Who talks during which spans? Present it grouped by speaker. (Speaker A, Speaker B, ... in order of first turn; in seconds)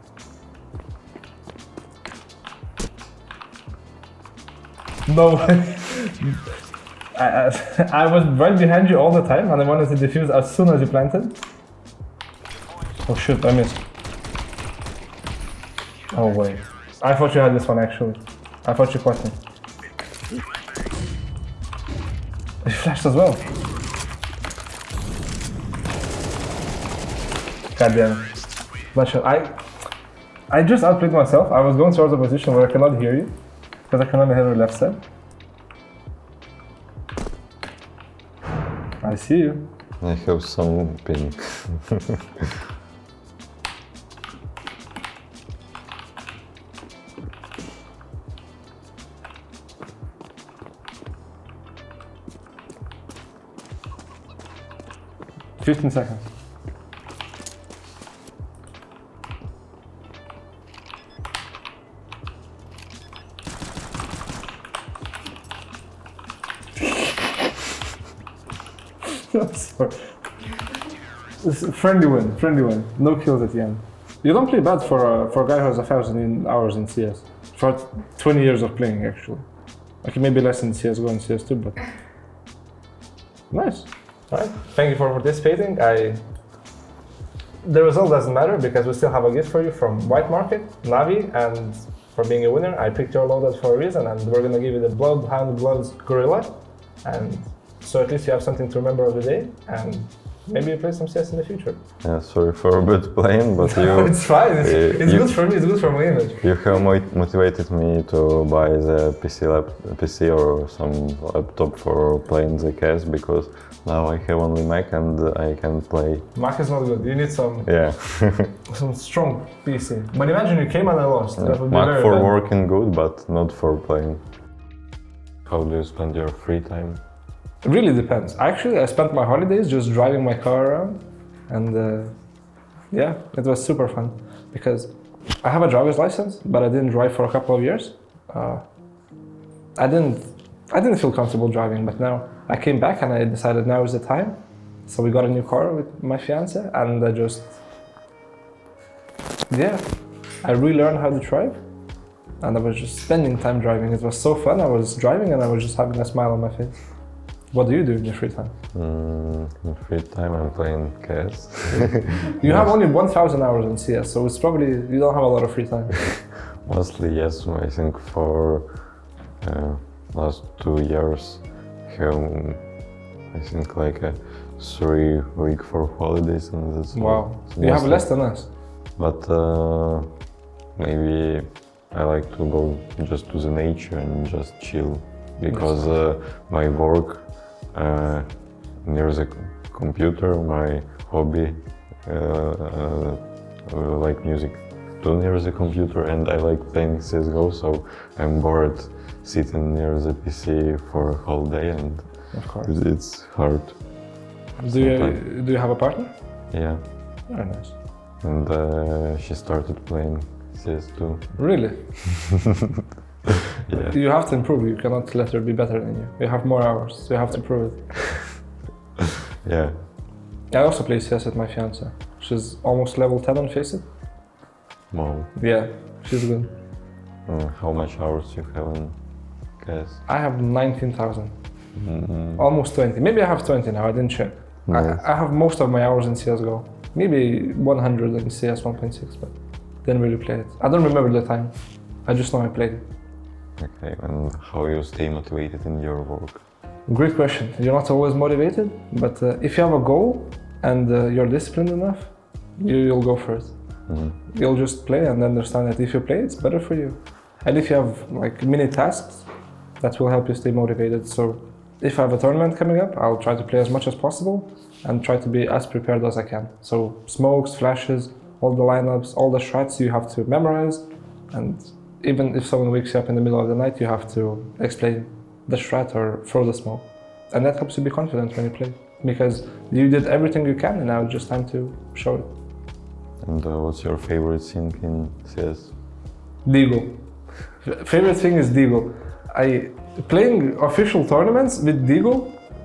Speaker A: 5.1-6.4, 7.2-11.4, 13.1-13.8, 16.1-19.4, 22.6-23.4, 27.8-28.3, 28.9-29.6, 30.5-33.4, 33.9-35.0, 39.0-39.7, 55.6-56.3, 69.0-70.1, 71.4-79.5, 80.0-81.8, 83.5-86.2, 87.6-101.8, 103.6-106.4, 116.3-117.7, 118.7-122.3, 127.6-132.2, 132.9-138.6, 139.8-147.6, 149.5-149.8, 150.4-151.6, 152.4-156.8, 157.5-158.6, 161.7-166.1, 176.9-178.5, 185.5-185.9, 202.3-202.7, 204.6-206.1, 207.3-207.8, 211.4-212.0, 213.8-218.2, 220.5-223.8, 225.4-226.5, 230.1-231.3, 232.4-241.5, 242.1-242.9, 246.9-253.6, 254.3-259.3, 259.8-282.3, 286.4-287.1, 287.6-292.4
Speaker B: 40.0-42.5, 102.0-105.4, 106.4-116.3, 117.7-118.5, 121.4-124.2, 125.5-127.0, 158.7-162.8, 166.6-172.7, 173.3-178.2, 179.0-180.2, 180.8-203.8, 204.7-205.2, 206.5-206.8, 208.2-211.4, 213.7-214.0, 219.4-219.8, 224.9-225.3, 227.3-228.9, 229.6-230.0, 231.8-232.5, 234.7-235.1, 243.6-246.4, 253.9-254.2, 283.2-285.7